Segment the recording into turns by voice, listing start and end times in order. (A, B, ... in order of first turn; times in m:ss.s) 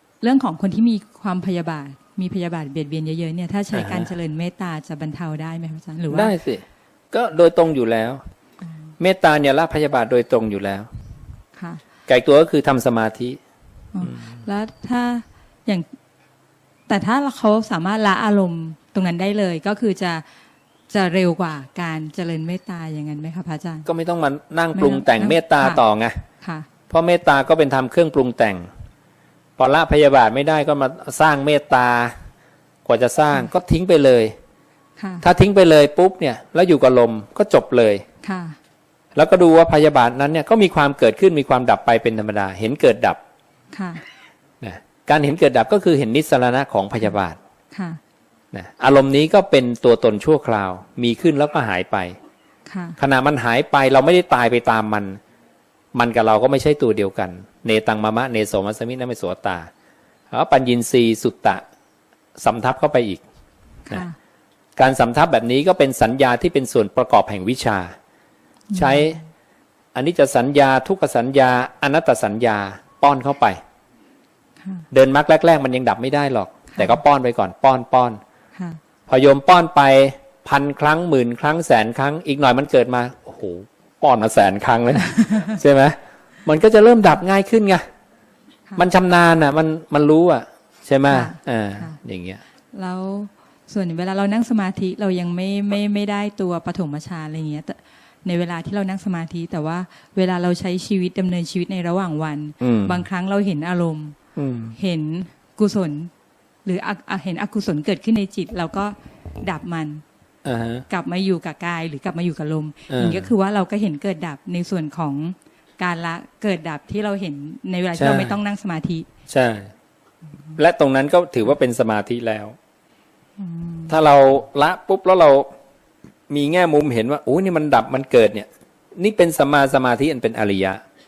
0:00.2-0:06.3 A
0:03.7-0:04.1 B
0:06.1-0:08.2 B
0:08.6-0:08.9 A
0:09.0-0:10.9 B
0:11.6-0:11.8 A
0:12.1-0:13.4 B
0:13.9-0:15.9 A
0:16.9-0:20.2 A
0:20.9-0:23.9 A
0:23.8-0:26.2 B
0:24.7-0:25.8 A
0:26.4-0:26.7 A
0:26.9-0:28.7 B
0:29.6-0:32.1 B
0:32.8-0:34.3 B
0:35.0-0:35.2 A
0:35.2-0:38.0 B
0:38.2-0:38.6 A
0:39.1-0:43.2 B
0:43.7-0:44.0 A
0:44.6-0:47.4 B
0:47.7-0:48.0 A
0:48.5-0:52.2 B
0:52.6-0:53.0 A
0:53.0-0:55.2 B
0:55.9-0:59.7 B
1:00.3-1:01.6 B
1:02.4-1:03.2 B
1:03.8-1:04.2 A
1:04.8-1:07.9 B
1:08.7-1:09.2 A
1:08.7-1:09.2 B
1:09.9-1:13.6 B
1:14.6-1:14.9 A
1:14.9-1:18.2 B
1:16.7-1:17.0 A
1:18.5-1:18.8 A
1:19.1-1:27.8 B
1:25.1-1:25.5 A
1:28.8-1:32.4 B
1:31.1-1:32.0 A
1:32.7-1:44.2 A
1:42.6-1:43.0 B
1:44.4-1:44.8 B
1:44.7-1:46.1 A
1:46.6-1:50.0 A
1:50.4-1:50.8 B
1:50.9-1:59.1 A
1:52.9-1:53.3 B
1:58.0-1:58.4 B
1:59.3-1:59.7 B
2:00.6-2:02.6 B
2:03.4-2:04.0 A
2:03.9-2:05.5 B
2:06.3-2:10.8 B